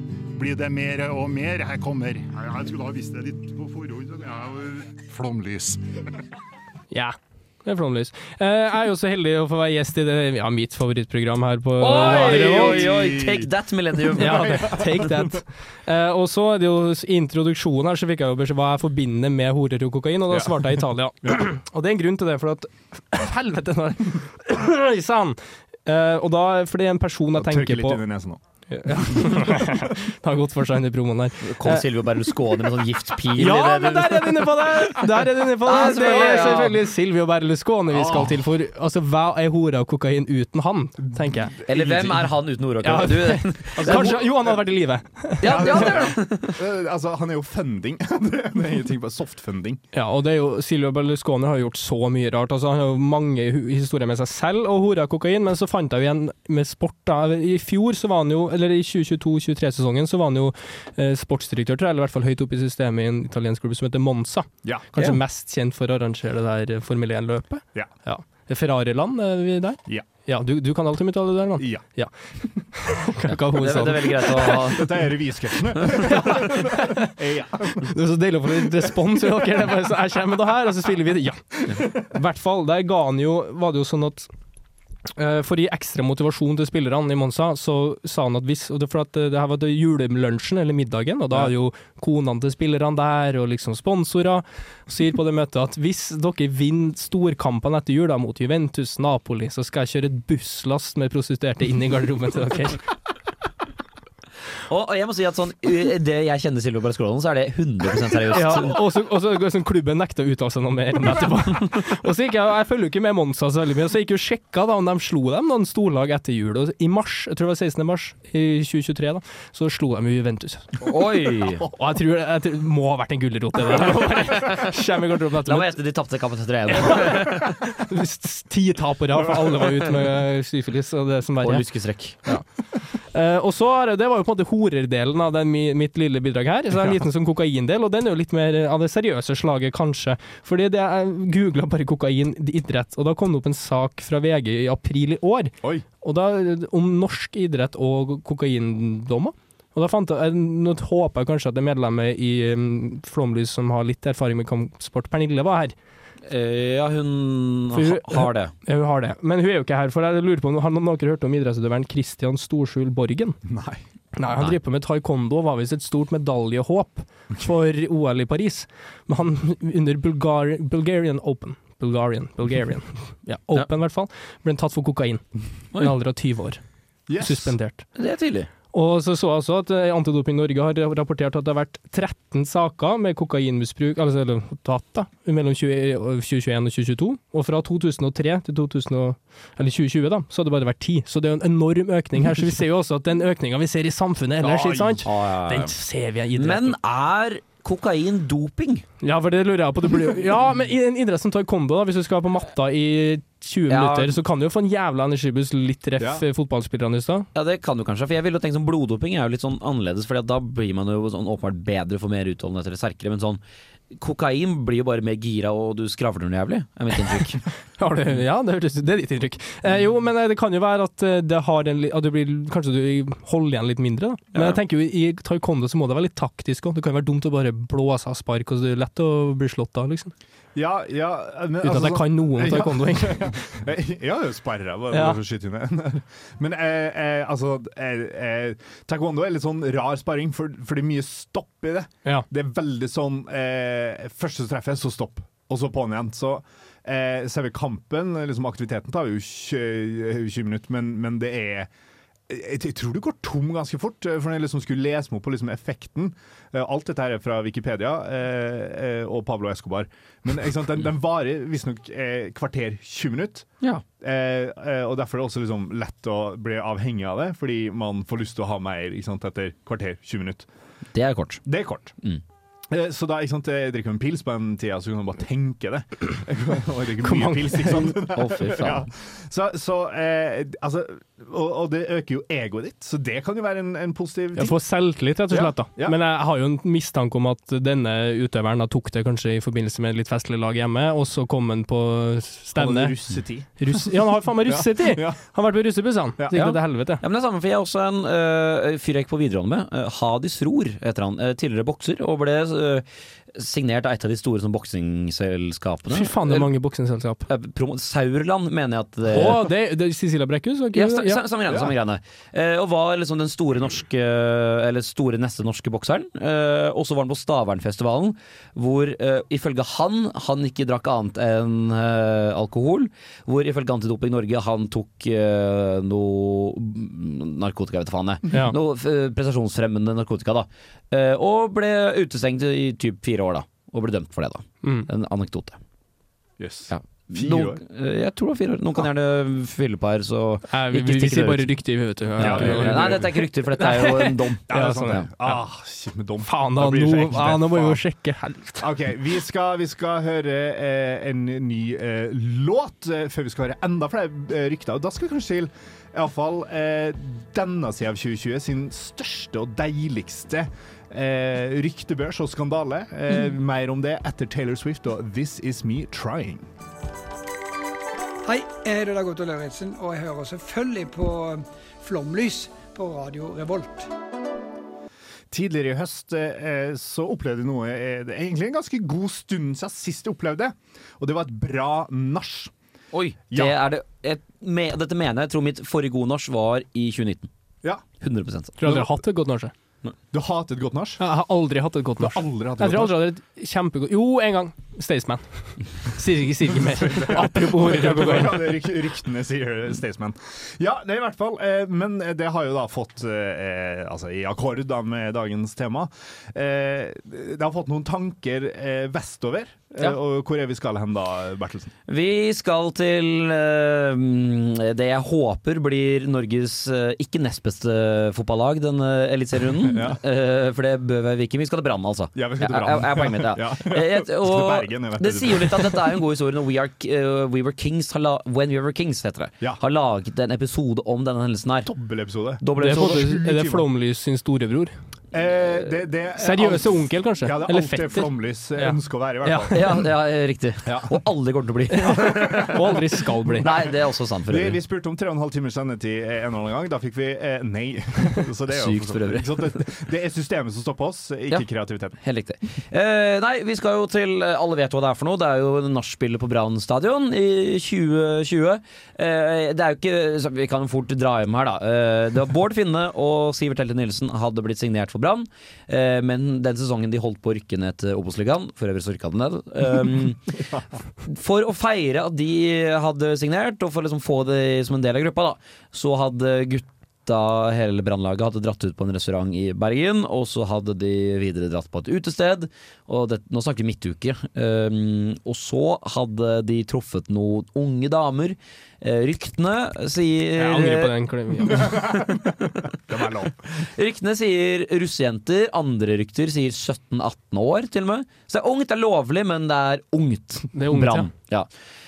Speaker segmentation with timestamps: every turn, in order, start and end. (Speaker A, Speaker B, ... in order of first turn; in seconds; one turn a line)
Speaker A: 0.3-5.8
Speaker B: 6.9-12.9
Speaker C: 11.8-14.8
Speaker D: 11.9-13.5
Speaker D: 14.1-15.4
Speaker B: 14.2-28.0
Speaker D: 20.3-20.6
Speaker D: 27.3-29.7
Speaker B: 28.7-31.8
Speaker C: 31.4-34.9
Speaker B: 33.4-41.5
Speaker C: 35.6-36.8
Speaker D: 36.3-36.5
Speaker D: 37.9-38.5
Speaker D: 41.0-42.3
Speaker C: 41.7-44.2
Speaker B: 42.8-46.0
Speaker D: 43.8-44.6
Speaker C: 45.4-46.6
Speaker D: 45.4-49.8
Speaker B: 49.9-74.6
Speaker D: 71.6-71.8
Speaker C: 73.6-74.9
Speaker D: 74.7-77.9
Speaker B: 76.0-77.1
Speaker B: 77.9-84.3
Speaker B: 85.2-102.8
Speaker C: 104.7-108.8
Speaker B: 108.3-120.8
Speaker C: 120.8-121.6
Speaker B: 121.8-125.7
Speaker C: 125.5-127.5
Speaker B: 126.8-155.7
Speaker C: 131.4-132.3
Speaker C: 156.3-158.5
Speaker B: 157.7-163.4
Speaker D: 163.4-163.8
Speaker B: 164.2-176.6
Speaker D: 177.1-177.6
Speaker B: 177.2-177.8
Speaker C: 177.9-178.5
Speaker B: 178.7-196.8
Speaker D: 194.4-195.0
Speaker C: 195.0-195.7
Speaker C: 196.3-198.8
Speaker B: 199.0-207.3
Speaker C: 203.7-204.2
Speaker D: 206.0-206.2
Speaker C: 207.3-213.4
Speaker C: 214.0-217.4
Speaker B: 217.8-230.1
Speaker D: 230.5-251.7
Speaker B: 231.6-233.3
Speaker B: 234.9-235.2
Speaker D: 252.3-263.5
Speaker D: 264.0-270.5
Speaker C: 270.9-271.4
Speaker D: 271.4-271.9
Speaker D: 272.7-284.6
Speaker B: 277.0-277.8
Speaker C: 277.7-278.9
Speaker B: 284.4-292.9
Speaker D: 285.3-286.0
Speaker D: 292.6-295.2
Speaker B: 293.6-297.0
Speaker C: 296.3-302.8
Speaker C: 303.3-306.5
Speaker B: 305.9-307.2
Speaker C: 307.3-309.5
Speaker B: 309.1-311.2
Speaker C: 310.7-335.6
Speaker D: 336.4-337.6
Speaker C: 336.7-341.5
Speaker B: 340.5-345.4
Speaker C: 342.2-345.1
Speaker D: 342.2-343.1
Speaker D: 344.5-347.8
Speaker B: 346.2-348.7
Speaker D: 348.6-366.5
Speaker E: 368.2-373.9
Speaker D: 375.3-382.5
Speaker C: 382.9-387.3
Speaker D: 383.3-383.6
Speaker C: 388.0-388.5
Speaker B: 388.6-389.5
Speaker D: 388.6-388.9
Speaker D: 390.1-391.0
Speaker B: 391.0-398.5
Speaker D: 392.0-393.0
Speaker D: 396.6-411.7
Speaker C: 411.9-431.7
Speaker D: 419.6-420.0
Speaker D: 422.1-426.0
Speaker D: 431.6-433.7
Speaker C: 432.4-433.2
Speaker B: 432.6-434.7
Speaker D: 435.1-439.7
Speaker B: 436.2-439.6
Speaker C: 439.5-442.5
Speaker D: 440.6-440.9
Speaker B: 441.7-443.5
Speaker D: 441.8-442.7
Speaker D: 443.3-451.9
Speaker C: 443.4-444.6
Speaker C: 448.5-449.6
Speaker C: 452.0-470.4
Speaker C: 471.1-490.9
Speaker B: 490.4-491.7
Speaker D: 491.4-493.6
Speaker C: 491.6-492.1
Speaker C: 493.6-501.5
Speaker B: 500.5-501.1